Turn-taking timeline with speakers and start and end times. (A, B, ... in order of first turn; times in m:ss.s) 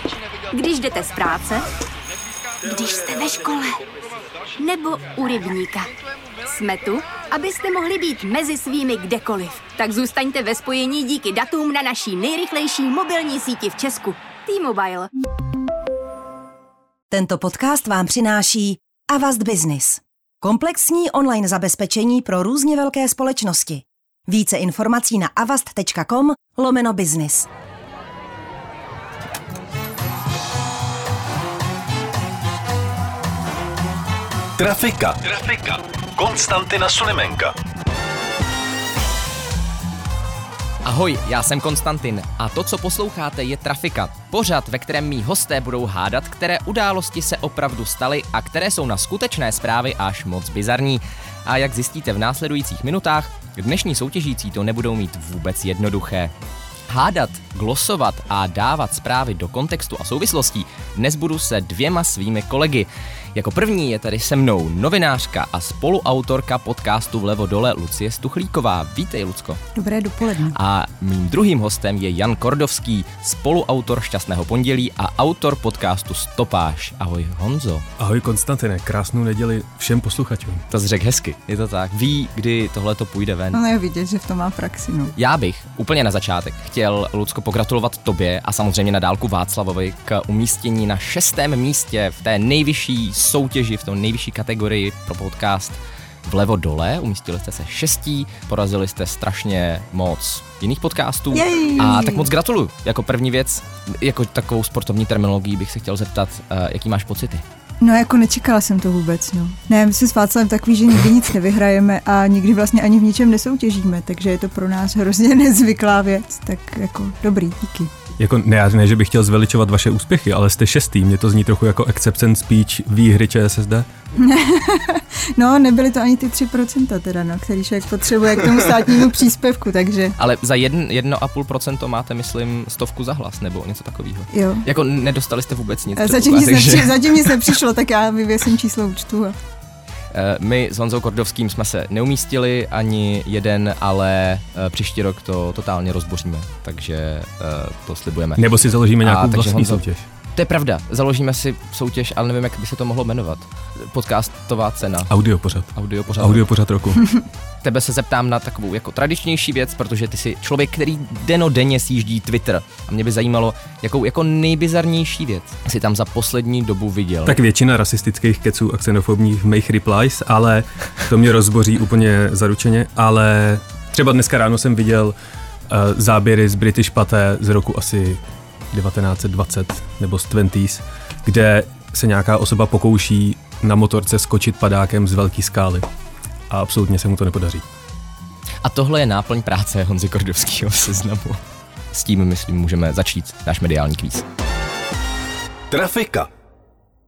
0:00.5-0:01.7 A
0:02.6-0:03.8 A
0:04.5-0:05.9 A
0:06.4-0:15.1 A
0:17.1-0:27.5 B
0:34.6-0:37.5 C
0:40.8-0:56.3 D
0:56.9-1:09.6 D
1:09.7-1:10.6 E
1:10.5-1:17.8 D
1:18.0-1:20.6 F
1:20.7-1:23.6 D
1:23.5-1:25.1 E
1:25.2-1:47.4 D
1:41.3-1:42.3 E
1:47.8-1:57.9 E
1:58.2-2:03.9 F
2:04.2-2:10.1 E
2:10.2-2:17.6 D
2:14.3-2:14.6 E
2:16.0-2:19.4 E
2:20.1-2:29.8 D
2:28.4-2:30.0 F
2:30.3-2:35.1 D
2:35.1-2:37.1 F
2:35.7-2:36.4 D
2:37.6-2:47.4 D
2:47.2-2:55.2 F
2:55.7-2:58.2 F
2:58.7-3:05.9 F
3:06.5-3:07.7 F
3:08.6-3:14.2 D
3:15.7-3:16.3 C